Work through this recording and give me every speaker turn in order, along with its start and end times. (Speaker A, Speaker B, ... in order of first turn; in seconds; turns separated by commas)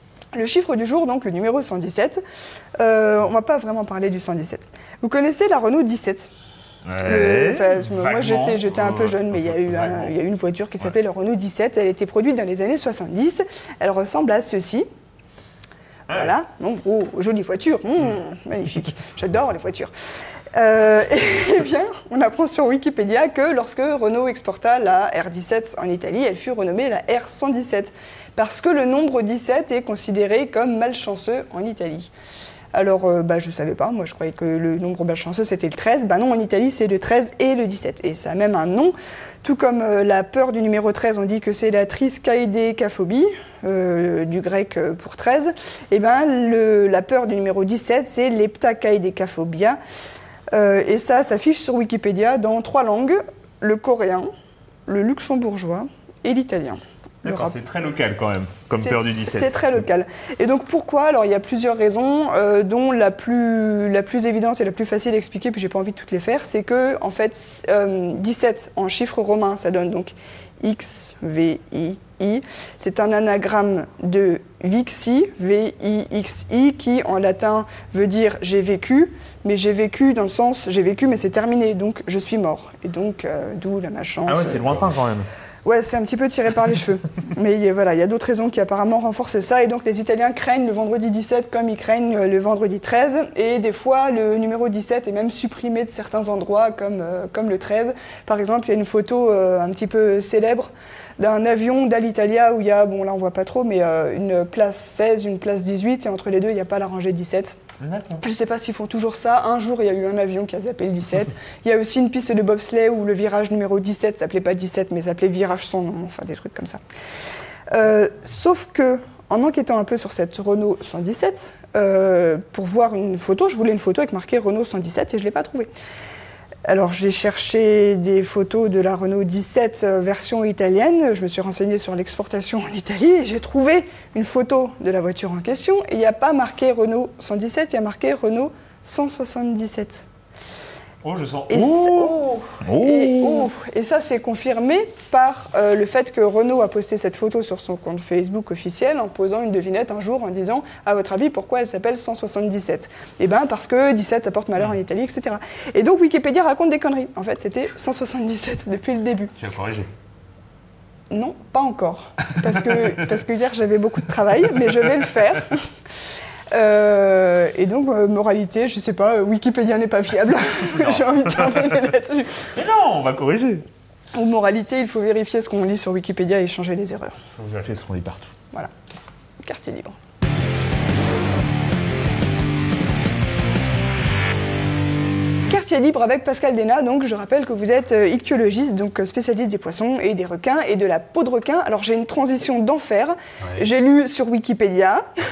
Speaker A: 0.3-2.2, Speaker A: 2.8-6.3, Speaker B: 6.8-10.1, Speaker A: 7.0-14.8, Speaker A: 16.1-19.9, Speaker A: 20.5-32.1, Speaker A: 32.7-49.8, Speaker A: 50.5-54.3, Speaker A: 54.9-57.5, Speaker B: 57.2-59.8, Speaker A: 58.8-84.8, Speaker B: 84.3-85.3, Speaker A: 85.6-107.5, Speaker B: 107.8-108.2, Speaker A: 108.2-116.8, Speaker A: 117.7-125.7, Speaker A: 126.7-140.0, Speaker B: 141.0-143.5, Speaker A: 141.5-159.3, Speaker B: 159.4-159.9, Speaker A: 161.1-165.6, Speaker A: 166.5-172.5, Speaker B: 172.5-173.6, Speaker A: 174.1-177.2, Speaker B: 177.3-178.3, Speaker A: 179.4-179.9, Speaker A: 185.4-195.1